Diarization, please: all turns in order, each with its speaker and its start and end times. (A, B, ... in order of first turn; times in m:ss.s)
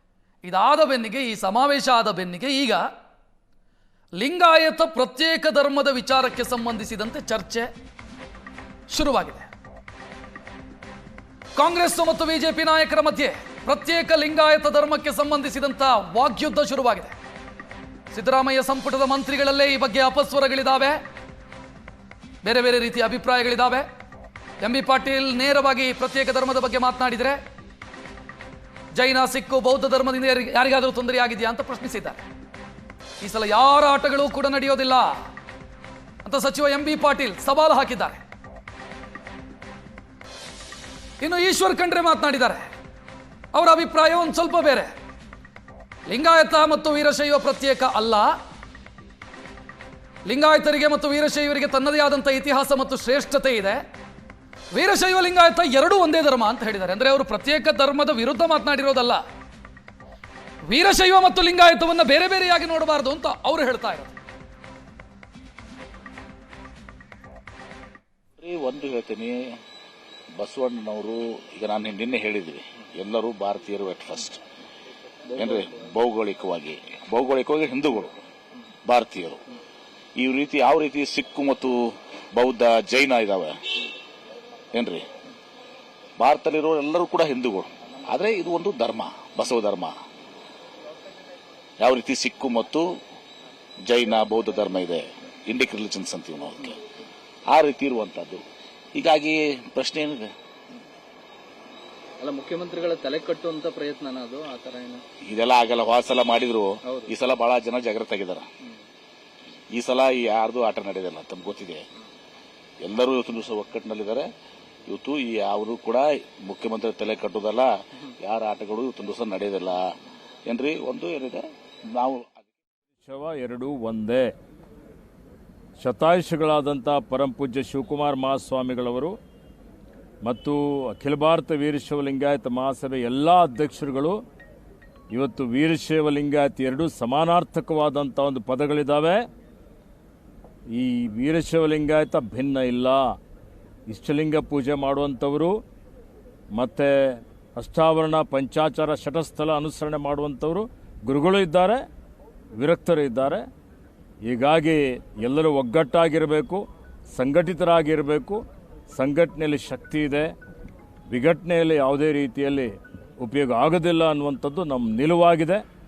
0:00.4-0:02.8 A
0:04.2-0:07.7 A
0:08.9-0:09.5 A
0:11.6-0:17.1 A
0:18.1-0:21.0 A
0:22.4-0:23.8 A
0:24.6-0:27.4 A
0:28.9-0:32.2 A
0:33.2-0:35.2 A
0:36.2-0:38.2 A
0:41.2-0:42.6 A
0:43.5-0:44.9 A
0:46.1-0:48.3 A
0:50.2-0:53.8 A
0:54.7-0:59.2 A
1:00.7-1:04.1 A
1:08.4-1:09.6 B
1:10.4-1:14.4 B
1:15.3-1:15.9 C
1:15.3-1:18.2 B
1:18.9-1:19.4 B
1:20.2-1:23.5 B
1:24.7-1:25.0 B
1:26.2-1:29.9 B
1:31.8-1:32.8 B
1:33.8-1:36.8 B
1:37.5-1:38.4 B
1:38.9-1:40.3 B
1:42.2-1:45.0 C
1:45.2-1:48.4 B
1:49.7-1:51.8 B
1:52.8-1:54.3 B
1:54.9-1:59.8 B
2:00.5-2:02.4 B
2:03.0-2:04.2 D
2:05.8-2:09.1 D
2:10.2-2:14.2 D
2:15.1-2:19.2 D
2:20.7-2:23.0 D
2:23.9-2:25.5 D
2:26.5-2:31.8 D
2:32.6-2:33.4 D
2:34.2-2:38.4 D
2:38.9-2:40.3 D
2:41.1-2:45.6 D